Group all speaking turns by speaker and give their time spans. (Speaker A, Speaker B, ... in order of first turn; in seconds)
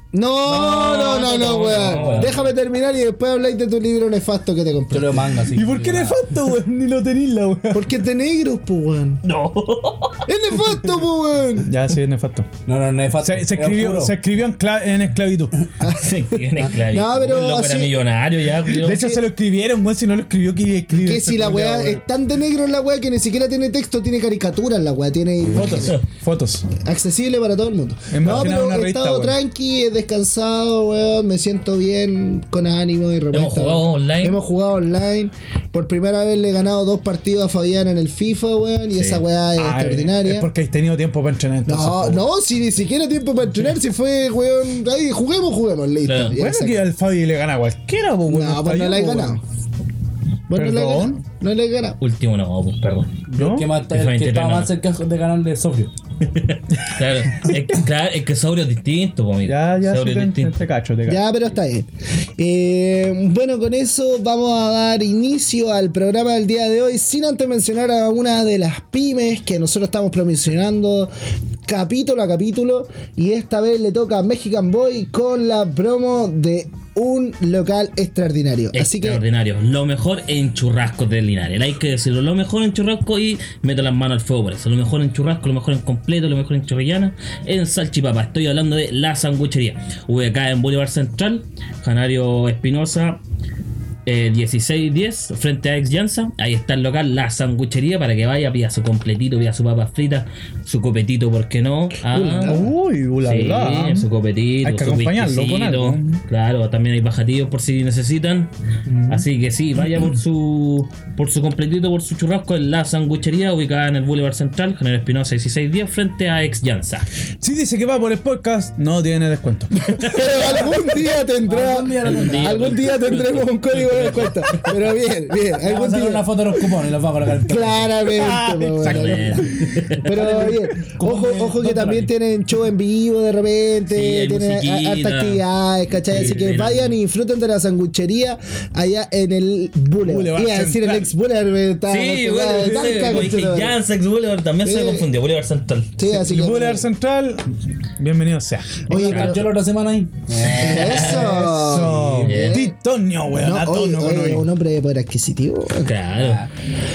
Speaker A: 0.1-5.3, 7.7-9.2, 10.2-11.7, 15.8-18.0, 18.9-19.2, 20.9-26.0, 26.7-40.5, 41.7-46.8, 48.3-49.4, 50.5-52.0, 61.1-71.1, 71.7-79.2, 102.1-102.7, 119.9-126.4, 127.5-143.8, 144.6-145.1, 146.0-146.9, 148.9-149.5, 150.6-152.7, 153.3-155.9
Speaker B: 0.4-2.5, 9.2-10.2, 15.9-19.2, 33.3-34.4, 38.9-39.2, 46.0-46.4, 52.0-53.2, 53.9-54.7, 56.2-60.6, 78.7-93.2, 94.0-102.6, 103.2-108.5, 109.1-117.1, 120.0-120.5, 122.0-124.9, 128.8-130.1, 133.9-135.4, 136.0-136.9, 141.9-145.9, 148.9-149.4, 150.3-151.3, 152.2-152.6, 155.7-156.4
Speaker C: 1.7-2.4, 4.9-6.2, 12.7-14.2, 53.3-55.9, 121.5-122.9, 125.6-127.9, 130.1-132.1, 136.1-136.6, 148.9-152.3, 156.2-156.5
Speaker D: 5.5-8.0, 11.6-12.5, 13.2-15.5, 18.7-22.0, 25.5-26.7, 28.1-29.4, 39.5-42.2, 46.3-49.4, 50.5-51.2, 53.4-53.7, 59.5-61.2, 102.4-104.1, 104.6-106.2, 108.9-109.2, 117.4-119.9, 128.1-129.6, 140.0-141.1, 146.0-148.8, 151.1-154.5